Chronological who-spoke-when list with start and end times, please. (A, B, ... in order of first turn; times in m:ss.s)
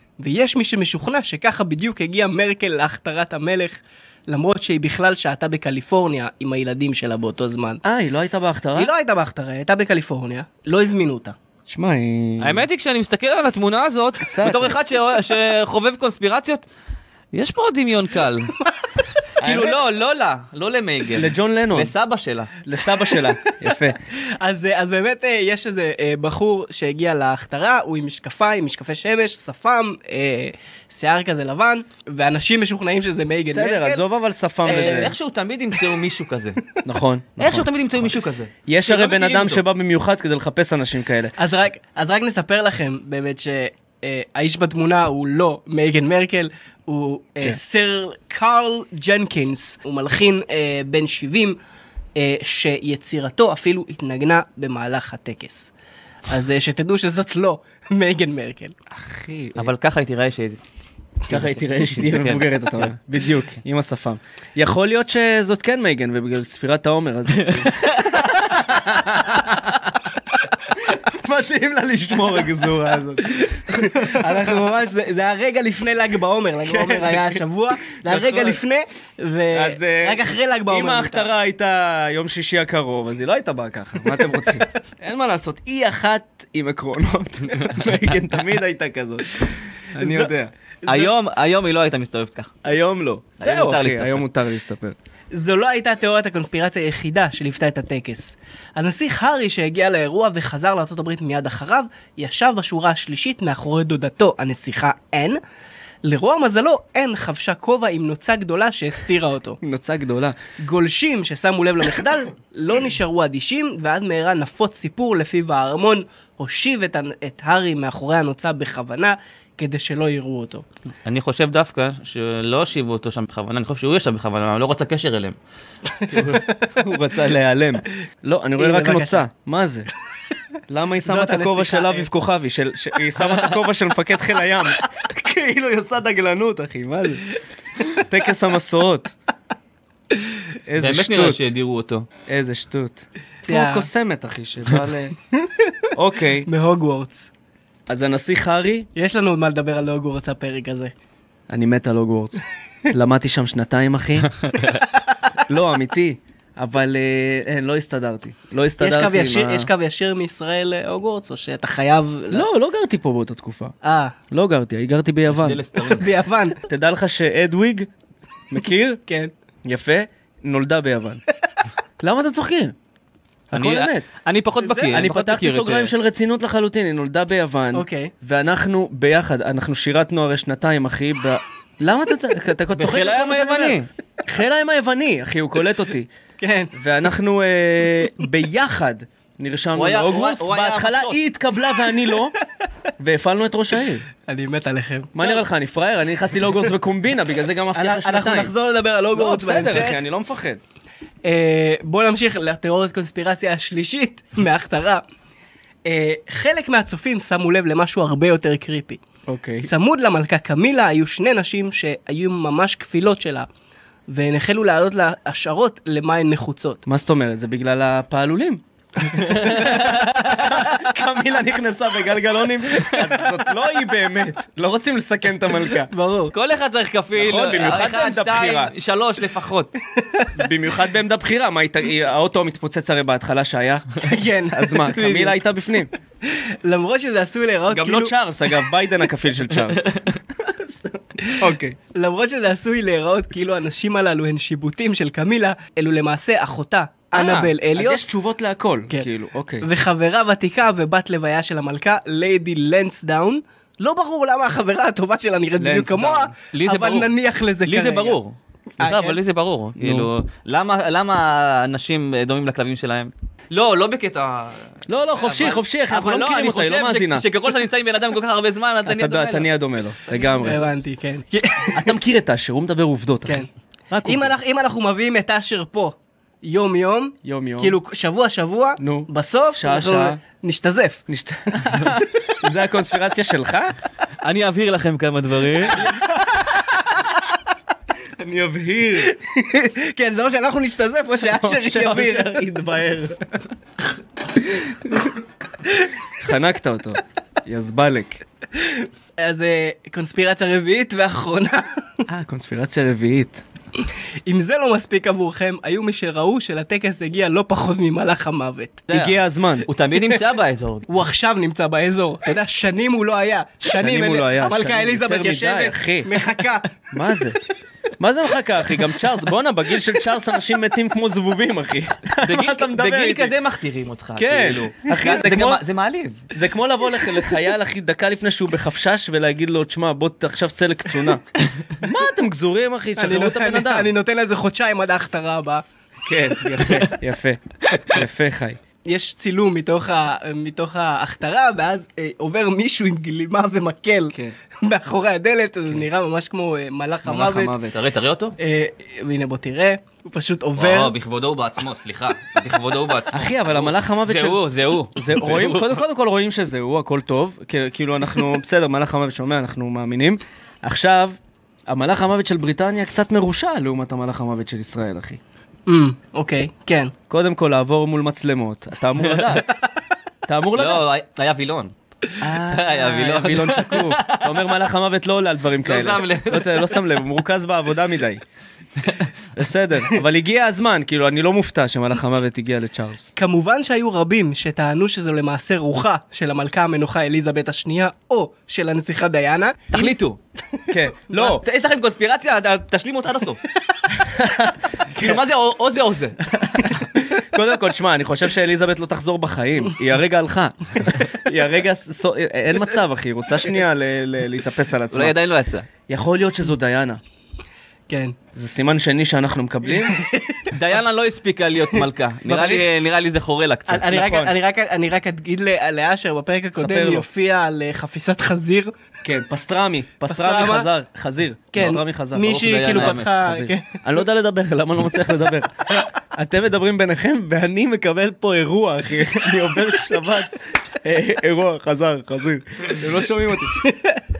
0:00.2-0:07.8 A
0:07.8-0:08.9 B
0:08.8-0:11.3 A
0:11.7-0:12.6 B
0:12.4-0:16.6 C
0:14.2-0:14.8 B
0:17.3-0:18.5 C
0:19.4-0:22.5 C
0:19.4-0:19.8 B
0:21.1-0:21.9 B
0:22.6-0:24.0 B
0:22.8-0:34.0 A
0:33.5-0:35.1 B
0:34.6-0:35.1 A
0:34.6-0:36.6 C
0:36.8-0:37.7 B
0:37.4-0:39.6 C
0:38.6-0:41.3 B
0:41.4-0:51.6 A
0:52.2-0:55.7 A
0:56.3-0:58.7 A
0:58.9-0:59.7 B
0:59.6-1:00.6 C
1:01.3-1:10.0 B
1:01.3-1:02.9 C
1:07.4-1:08.4 C
1:10.7-1:14.5 B
1:13.5-1:21.3 A
1:16.6-1:18.6 B
1:19.5-1:30.5 B
1:30.0-1:30.3 A
1:30.8-1:31.1 A
1:30.8-1:32.6 C
1:32.6-1:35.0 B
1:33.4-1:34.2 C
1:35.3-1:45.4 A
1:46.0-1:49.6 A
1:49.6-1:50.4 B
1:50.6-2:00.6 A
2:01.0-2:05.4 C
2:06.1-2:09.9 B
2:06.2-2:06.5 A
2:08.6-2:09.2 A
2:10.7-2:17.3 B
2:11.0-2:12.1 A
2:17.9-2:19.1 B
2:20.6-2:21.5 B
2:20.8-2:22.1 C
2:22.3-2:25.1 B
2:23.4-2:23.9 A
2:25.3-2:25.7 A
2:25.9-2:26.5 B
2:26.5-2:27.3 A
2:27.9-2:28.9 B
2:28.9-2:30.9 A
2:31.5-2:34.7 B
2:35.4-2:39.7 B
2:38.8-2:42.4 A
2:42.3-2:43.7 B
2:43.8-2:44.2 A
2:44.3-2:45.6 B
2:45.3-2:46.1 C
2:45.8-2:46.6 A
2:46.6-2:47.9 B
2:48.5-2:49.0 B
2:49.1-2:49.3 A
2:49.6-2:51.2 B
2:52.0-2:52.7 B
2:53.5-2:54.0 B
2:53.5-2:55.9 C
2:54.6-2:55.0 A
2:54.9-3:06.1 B
2:57.7-2:58.1 A
3:02.7-3:03.9 C
3:06.4-3:06.7 A
3:06.7-3:12.3 B
3:09.7-3:11.2 C
3:13.0-3:14.0 B
3:14.2-3:15.4 A
3:15.1-3:18.5 B
3:17.7-3:20.0 A
3:19.1-3:20.6 B
3:21.2-3:25.0 A
3:25.8-3:29.0 A
3:29.3-3:29.7 B
3:29.6-3:33.5 A
3:34.1-3:36.8 A
3:36.8-3:45.9 B
3:39.2-3:40.8 C
3:45.8-3:46.3 A
3:46.3-3:49.7 C
3:47.1-3:48.7 B
3:50.0-3:50.3 A
3:50.3-3:54.0 B
3:54.0-3:55.4 A
3:54.5-3:55.9 B
3:56.2-3:58.1 A
3:57.7-4:01.8 B
3:59.6-4:00.1 C
4:01.2-4:08.0 A
4:07.1-4:09.6 B
4:09.6-4:18.2 A
4:15.6-4:16.3 B
4:16.5-4:17.1 C
4:17.6-4:29.5 C
4:18.8-4:19.2 A
4:19.8-4:20.1 B
4:24.9-4:27.2 B
4:28.8-4:30.6 B
4:30.3-4:31.9 A
4:31.7-4:34.3 B
4:34.0-4:41.0 A
4:37.2-4:37.8 B
4:38.8-4:40.2 B
4:41.1-4:43.7 B
4:44.2-4:45.9 C
4:48.2-4:49.1 B
4:49.0-4:52.4 A
4:51.3-4:53.4 B
4:54.7-4:55.1 B
4:56.2-4:58.2 B
4:58.6-5:02.0 A
5:02.1-5:03.4 B
5:03.8-5:08.8 A
5:08.9-5:10.8 C
5:08.9-5:09.7 B
5:10.9-5:16.7 A
5:13.6-5:16.1 B
5:16.9-5:17.4 B
5:18.0-5:23.3 B
5:22.2-5:26.2 C
5:24.2-5:25.6 B
5:26.3-5:33.9 B
5:33.0-5:35.6 A
5:36.0-5:38.6 B
5:36.4-5:36.9 A
5:38.8-5:47.6 A
5:47.0-5:47.7 B
5:47.7-5:48.4 C
5:48.4-5:50.9 A
5:50.6-5:55.8 C
5:53.1-6:05.2 B
6:05.7-6:06.9 A
6:07.1-6:09.5 B
6:09.0-6:09.3 C
6:10.3-6:10.8 B
6:10.6-6:11.7 C
6:12.2-6:18.2 B
6:12.3-6:14.4 C
6:15.6-6:16.8 C
6:18.8-6:19.1 C
6:19.3-6:23.1 B
6:23.2-6:29.9 A
6:29.7-6:30.2 C
6:30.7-6:31.4 B
6:31.1-6:33.4 C
6:33.9-6:35.2 B
6:34.9-6:36.2 C
6:36.3-6:45.2 B
6:44.9-6:45.7 C
6:45.9-6:47.0 B
6:47.9-6:48.2 A
6:48.3-6:50.0 B
6:49.7-6:50.5 A
6:50.5-6:53.9 C
6:52.2-6:52.7 B
6:53.7-6:58.7 A
6:53.8-6:54.3 B
6:56.6-6:57.1 B
6:59.0-7:13.6 B
7:00.1-7:00.7 A
7:01.5-7:03.8 A
7:01.6-7:03.1 C
7:13.6-7:14.0 A